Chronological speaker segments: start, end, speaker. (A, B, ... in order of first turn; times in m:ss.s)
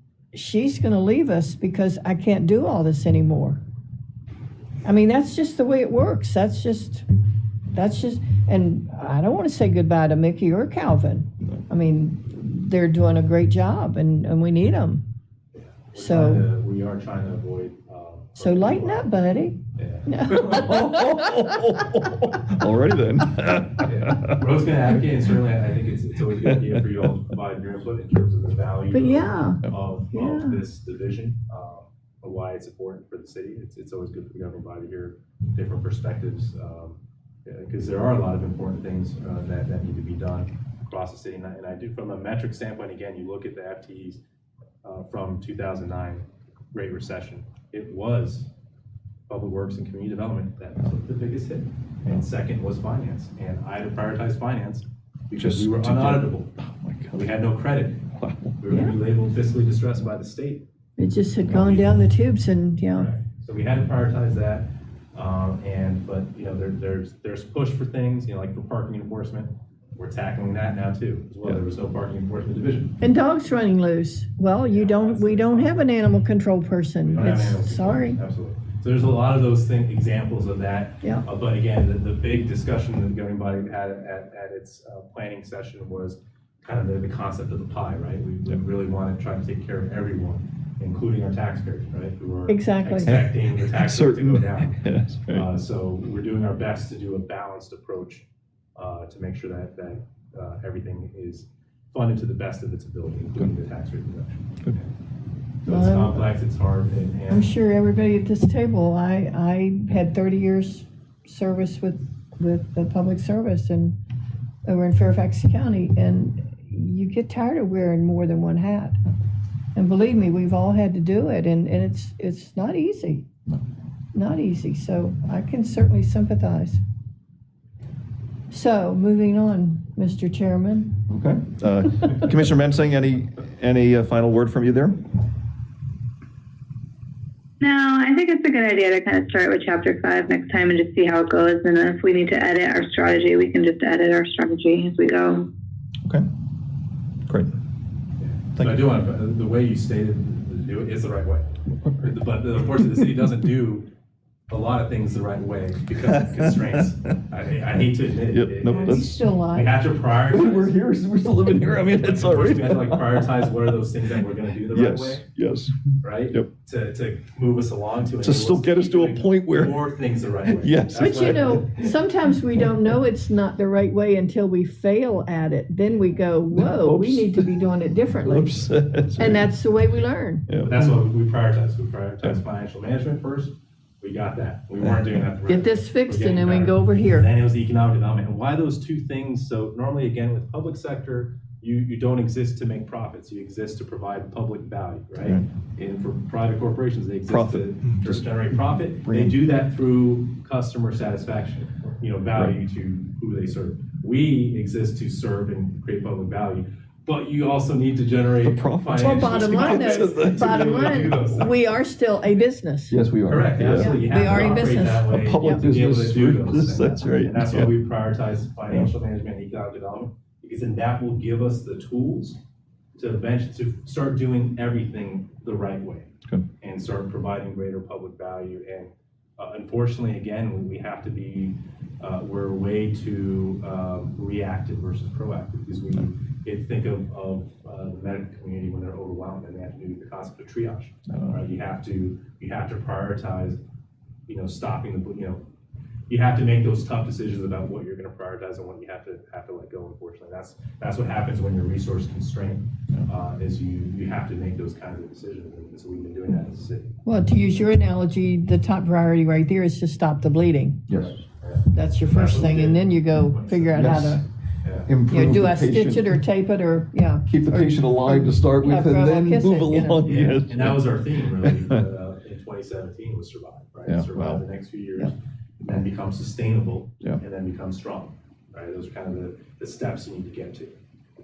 0:00.3-0:03.6 A
0:04.8-0:07.0 A
0:07.7-0:15.0 A
0:15.5-0:19.1 B
0:15.9-0:16.5 A
0:18.4-0:21.4 A
0:19.8-0:20.8 B
0:20.5-0:24.4 C
0:23.8-0:44.2 B
0:26.3-0:27.0 C
0:28.9-0:30.6 A
0:44.8-0:48.5 B
0:49.3-0:56.5 B
0:55.4-0:57.4 C
0:57.1-0:58.0 B
0:58.1-0:58.8 C
0:58.6-1:00.6 B
1:01.0-1:03.1 A
1:01.5-1:02.0 B
1:02.9-1:13.0 B
1:13.0-1:18.2 A
1:14.6-1:15.9 B
1:17.1-1:38.2 B
1:32.5-1:33.1 A
1:33.1-1:35.5 C
1:38.8-1:44.9 B
1:45.6-1:46.2 A
1:45.6-1:47.5 B
1:47.3-1:54.0 A
1:54.6-1:59.0 A
1:59.7-2:03.3 A
2:04.1-2:06.8 A
2:08.5-2:11.0 A
2:11.1-2:15.0 C
2:17.6-2:25.5 D
2:28.2-2:31.5 B
2:32.0-2:33.9 B
2:34.5-2:40.8 B
2:36.2-2:36.8 C
2:38.3-2:39.3 C
2:38.6-2:39.7 A
2:40.3-2:43.5 C
2:41.7-2:45.2 B
2:44.7-2:45.7 C
2:46.0-2:51.9 B
2:48.2-2:49.8 C
2:50.4-2:51.8 C
2:50.9-2:58.6 A
2:56.5-2:57.6 C
2:58.2-2:59.5 C
2:59.2-3:00.5 A
3:00.5-3:00.9 C
3:00.6-3:31.8 B
3:04.8-3:05.2 C
3:05.5-3:07.3 A
3:15.2-3:15.4 C
3:17.2-3:19.4 C
3:28.4-3:31.2 C
3:29.0-3:33.0 A
3:32.9-3:37.7 C
3:33.3-3:42.4 B
3:33.6-3:35.6 A
3:43.0-3:46.1 B
3:46.6-4:03.6 B
4:01.1-4:01.4 C
4:04.3-4:05.4 B
4:06.1-4:17.0 B
4:17.0-4:20.8 A
4:20.9-4:21.2 C
4:20.9-4:24.9 B
4:21.7-4:24.2 A
4:23.7-4:24.2 C
4:24.8-4:26.2 C
4:25.1-4:30.3 A
4:27.3-4:31.8 C
4:30.0-4:40.8 B
4:33.8-4:34.4 C